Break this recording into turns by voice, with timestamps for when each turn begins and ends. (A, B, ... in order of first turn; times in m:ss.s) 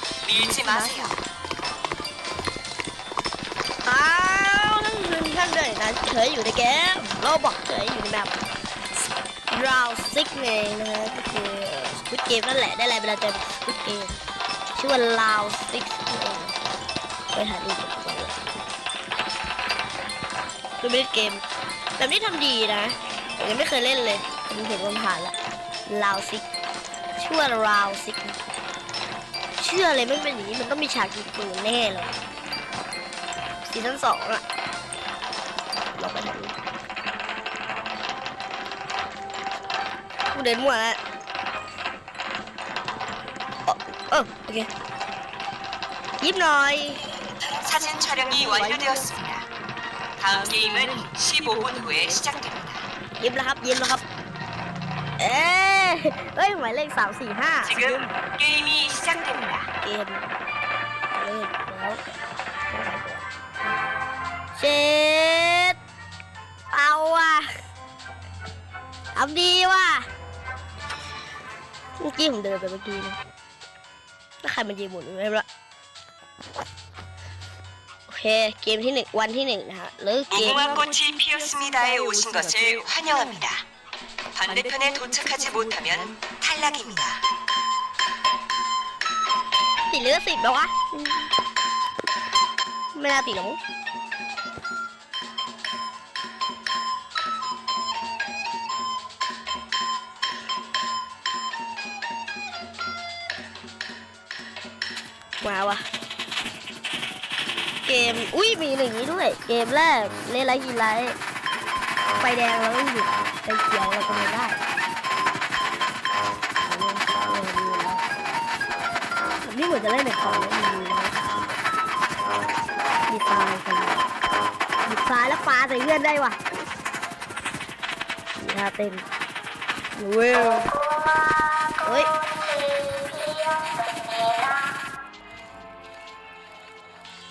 0:00.2-0:01.2 A
0:03.8-0:08.3 B
0:09.5-0:14.2 B
0:14.7-0:16.6 B
0:17.3-0:18.5 B
0:20.8-0:21.4 B
0:22.0-0:25.4 B
0:25.9-0:26.4 B
0:27.2-0:28.4 B
0:29.6-0:32.1 B
0:33.6-0:34.4 B
0:36.0-0:36.5 B
0:40.3-0:41.0 B
0:43.6-0:44.7 B
0:46.2-0:47.2 B
0:47.4-0:49.5 A
0:50.2-0:52.9 A
0:53.2-0:54.0 B
0:55.2-0:57.9 B
0:57.7-0:59.7 A
0:59.8-1:00.4 B
1:01.1-1:02.0 B
1:02.7-1:03.3 B
1:04.5-1:05.8 B
1:06.7-1:07.5 B
1:09.1-1:10.1 B
1:12.0-1:13.2 B
1:14.4-1:15.4 B
1:18.1-1:20.8 B
1:20.3-1:23.6 A
1:24.4-1:27.2 A
1:29.9-1:31.3 B
1:32.9-1:33.6 B
1:45.4-1:45.8 B
1:47.8-1:51.2 B
1:52.2-1:54.6 B
1:56.6-1:58.1 B
1:59.4-2:01.2 B
2:03.1-2:04.0 B
2:04.8-2:06.4 B
2:08.4-2:09.0 B
2:09.9-2:10.7 B
2:11.8-2:12.1 B